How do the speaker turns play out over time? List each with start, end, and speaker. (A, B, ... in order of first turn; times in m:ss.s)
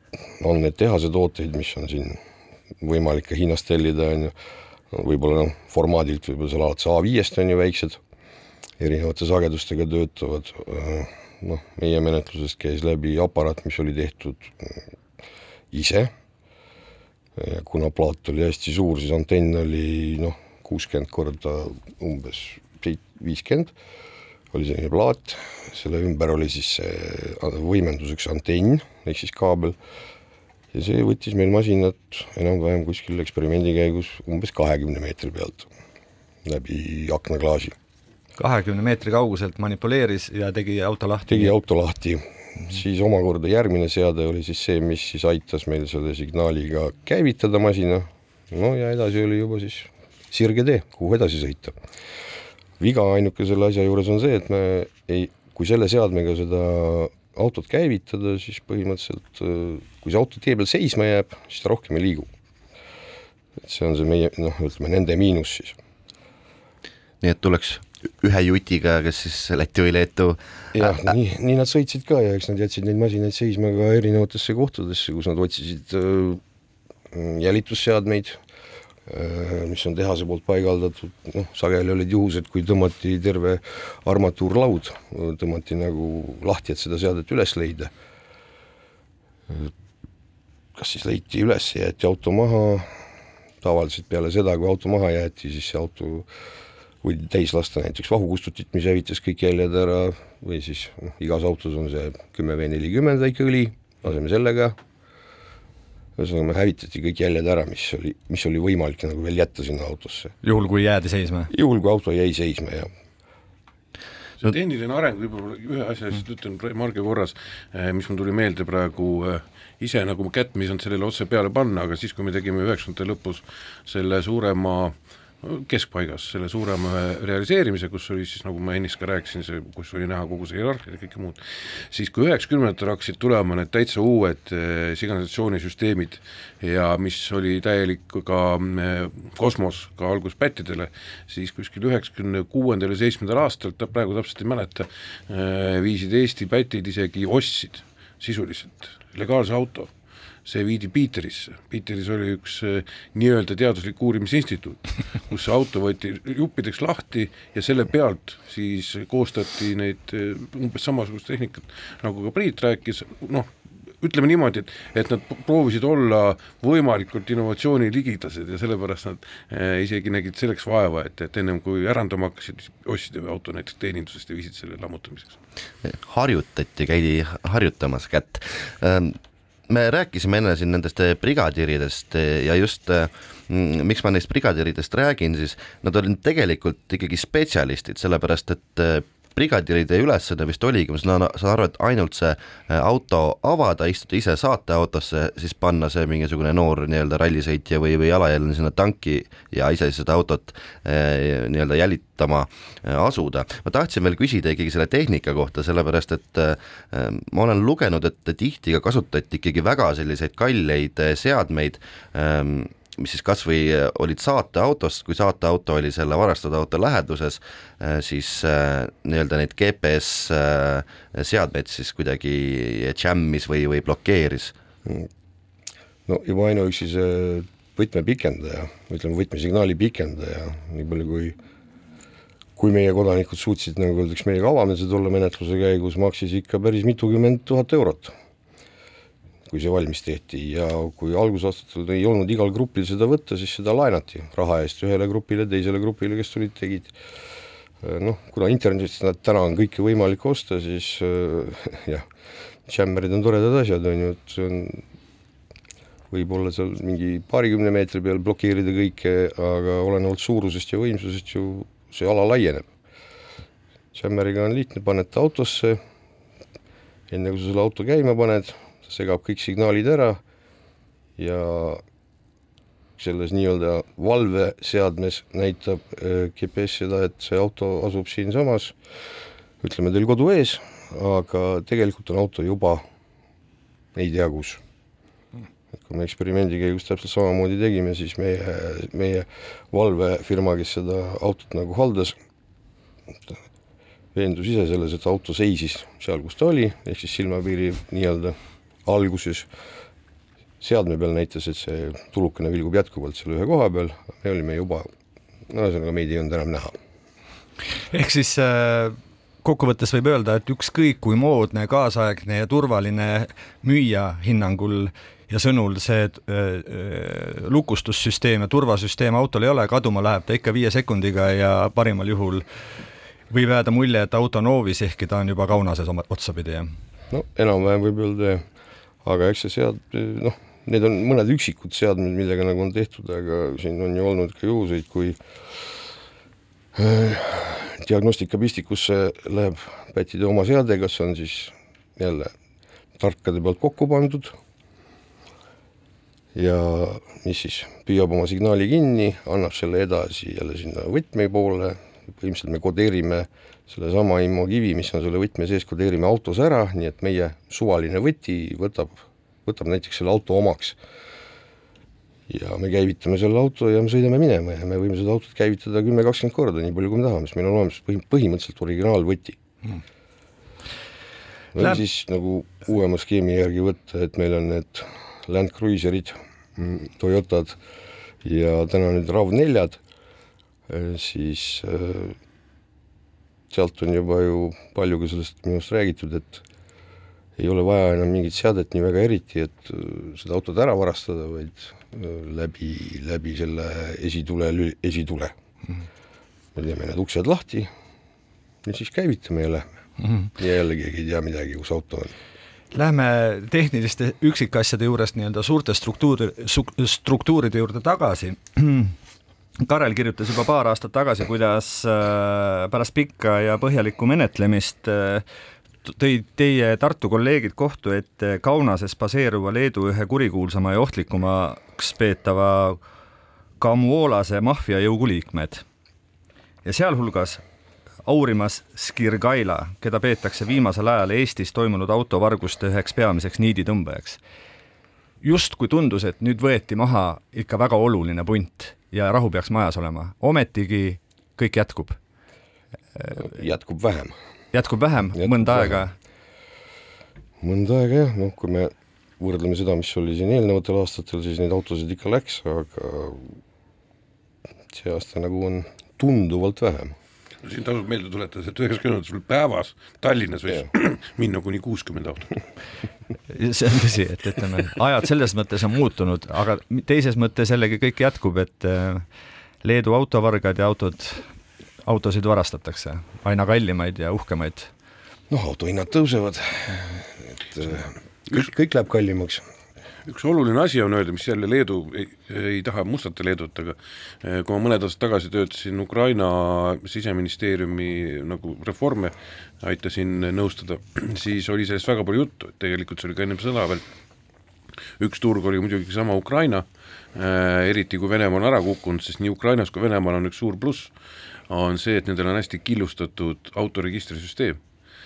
0:00.4-0:02.2 A
0:02.8-0:04.3 A
0:04.9-0:08.0 A
0:08.8-0:14.8 A
0:15.7-0:16.1 A
0:17.4-0:23.7 A
0:24.5-0:29.8 A
0:30.7-0:35.7 A
0:36.4-0:37.8 A
0:38.4-0:41.5 B
0:41.3-0:51.8 A
0:52.8-1:02.3 A
1:03.6-1:05.8 A
1:07.2-1:10.9 C
1:10.7-1:16.4 A
1:17.1-1:18.4 A
1:19.1-1:27.9 A
1:30.8-1:32.9 A
1:33.6-1:36.3 A
1:37.0-1:44.8 A
1:46.2-1:50.3 A
1:50.4-1:51.5 B
1:51.5-1:52.9 A
1:54.4-2:29.9 D
2:30.5-2:43.5 D
2:44.0-2:55.4 D
2:55.8-3:44.5 C
3:46.1-3:51.4 A
3:52.6-3:58.1 A
3:59.5-4:06.9 A
4:07.8-4:12.1 A
4:12.7-4:14.8 A
4:16.1-4:22.7 A
4:23.9-4:25.8 A
4:27.1-4:30.2 A
4:31.2-4:31.8 A
4:33.0-4:38.8 A
4:39.6-4:42.8 A
4:44.0-4:44.6 A
4:45.8-4:52.2 A
4:54.2-4:59.5 A
5:00.6-5:04.9 A
5:05.5-5:06.8 A
5:07.9-5:22.4 B
5:23.3-5:26.7 B
5:27.1-5:28.4 A
5:29.0-5:35.2 A
5:36.8-5:42.3 A
5:43.0-5:44.4 A
5:46.3-6:00.8 A
6:02.3-6:09.4 A
6:11.5-6:17.6 A
6:18.2-6:19.8 A
6:20.7-6:22.2 A
6:23.5-6:26.4 A
6:27.4-6:35.3 A
6:36.6-6:37.7 A
6:38.6-6:39.7 A
6:40.3-6:42.1 A
6:42.7-6:48.9 B
6:49.6-6:55.2 B
6:55.8-7:02.8 B
7:03.6-7:05.6 B
7:06.6-7:07.4 B
7:08.1-7:14.2 B
7:15.2-7:22.0 B
7:23.1-7:24.1 A
7:24.5-7:25.9 B
7:25.2-7:25.8 A
7:27.4-7:33.4 A
7:34.7-7:37.0 A
7:37.4-7:42.4 D
7:43.3-7:49.0 B
7:49.6-7:51.3 B
7:51.9-7:54.7 B
7:55.3-7:59.4 A
8:00.1-8:13.8 D
8:15.0-8:20.9 D
8:21.5-8:24.6 D